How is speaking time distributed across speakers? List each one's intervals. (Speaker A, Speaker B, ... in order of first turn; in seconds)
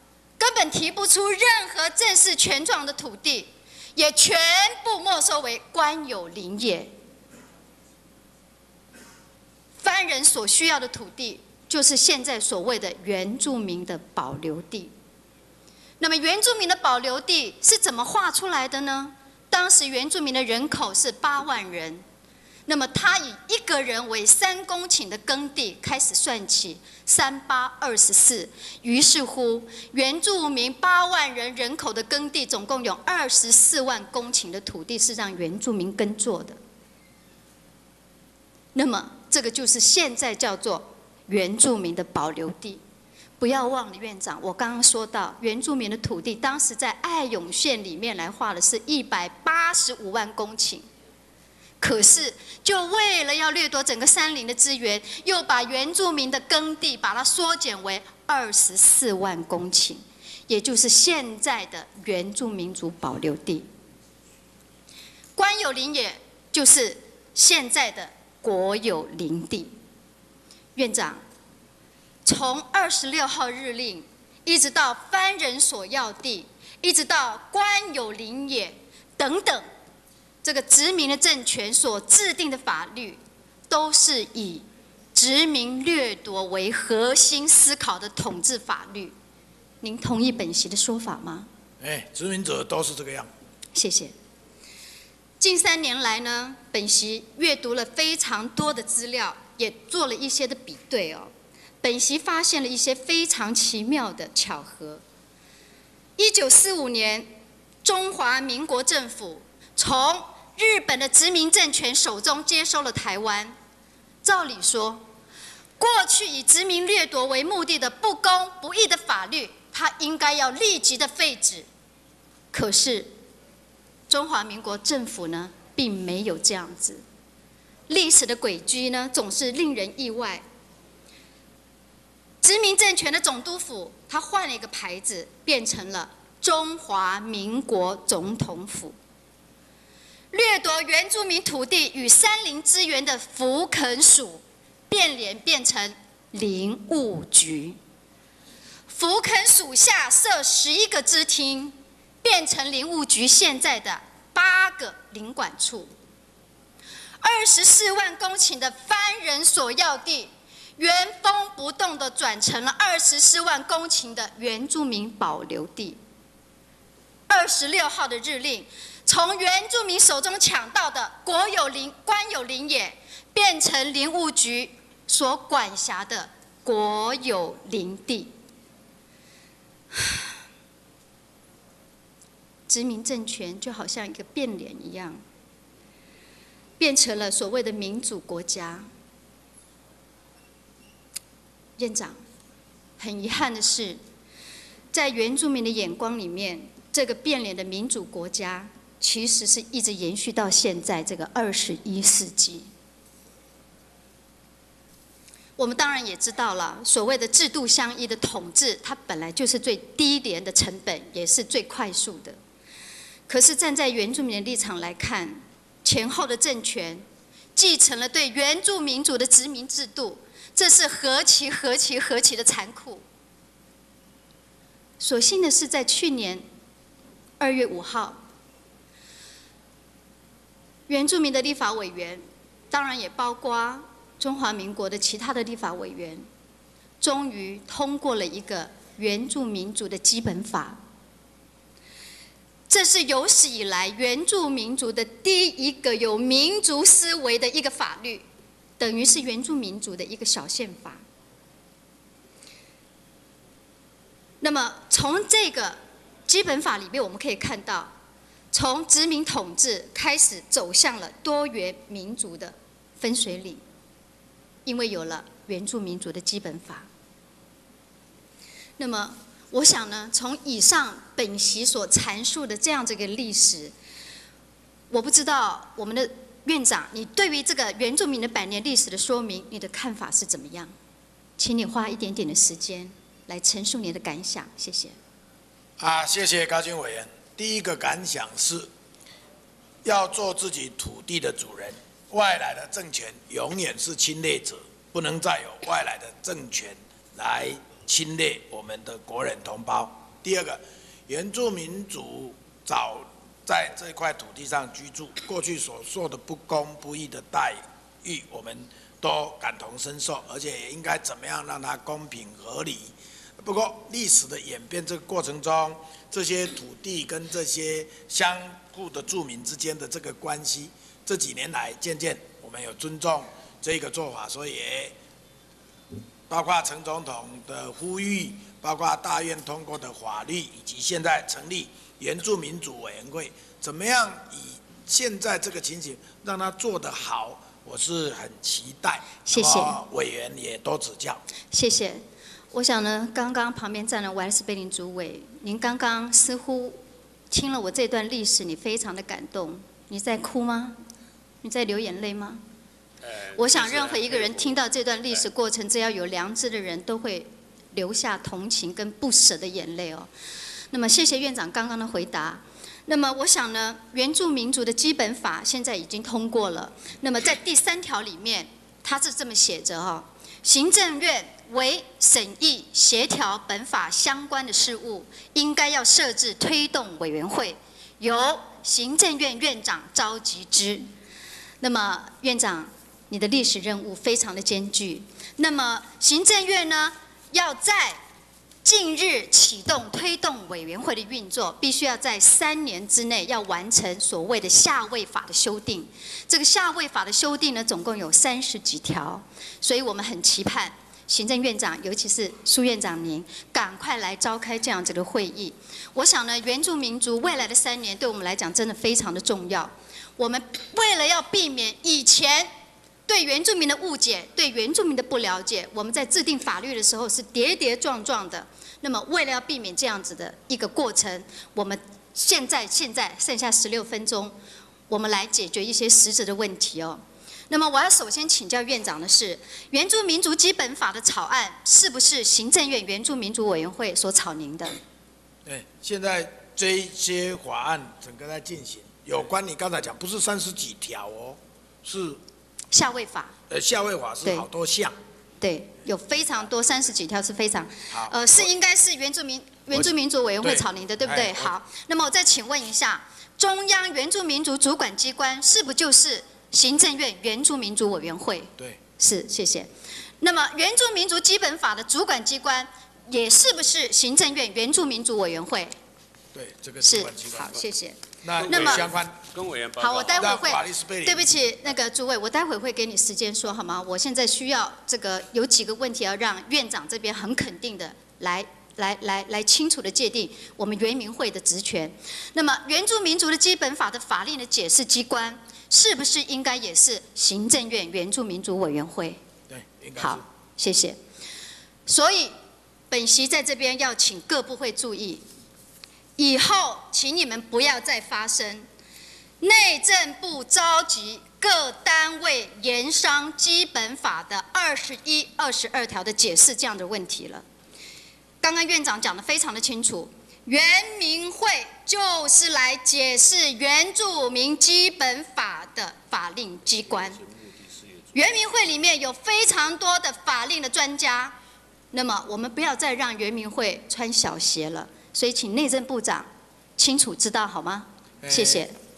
Speaker A: 0.4-6.9, 9.8-14.9, 16.0-22.0, 22.6-36.6, 38.7-42.8, 43.4-50.9, 51.8-63.7, 65.3-69.7, 70.8-71.2, 72.2-79.7, 80.4-89.1, 89.8-91.5, 93.7-94.1, 95.4-101.3, 101.8-105.0, 106.2-113.5, 114.2-115.0, 115.8-121.7, 122.5-123.1, 124.1-127.0, 127.9-130.4, 132.4-139.0, 140.3-147.8, 148.9-155.9, 157.2-166.0, 167.3-178.3, 179.9-180.2, 182.7-185.2, 186.8-188.9, 191.8-192.2, 193.0-194.0, 194.9-202.7, 205.6-212.4, 213.3-217.0, 217.6-223.0, 225.0-226.4, 227.4-228.2, 230.9-236.2, 237.0-240.8, 242.7-248.2, 248.8-251.0, 254.4-257.9, 258.5-263.6, 264.6-266.9, 268.8-273.7, 274.9-280.7, 281.4-284.9, 339.2-339.8, 341.5-346.8, 347.3-350.8, 351.4-352.4, 353.3-360.1, 360.7-380.9, 381.6-388.0, 388.6-412.5, 413.1-424.4, 424.9-434.8, 442.7-443.3, 445.4-459.7, 460.2-465.7, 466.8-468.9, 469.8-489.2, 490.0-491.0, 491.9-492.3, 492.9-495.2, 496.2-498.7, 499.4-507.4, 508.4-517.2, 518.1-521.4, 521.9-528.7
Speaker B: 91.8-93.3, 285.8-288.7, 289.8-324.9, 326.3-341.2, 435.4-442.2, 443.5-444.9, 447.9-448.4, 450.4-451.5, 466.3-467.6, 468.2-469.2, 470.1-471.3, 489.5-490.2, 528.2-528.6
Speaker C: 353.5-354.2, 468.5-470.3, 517.3-517.9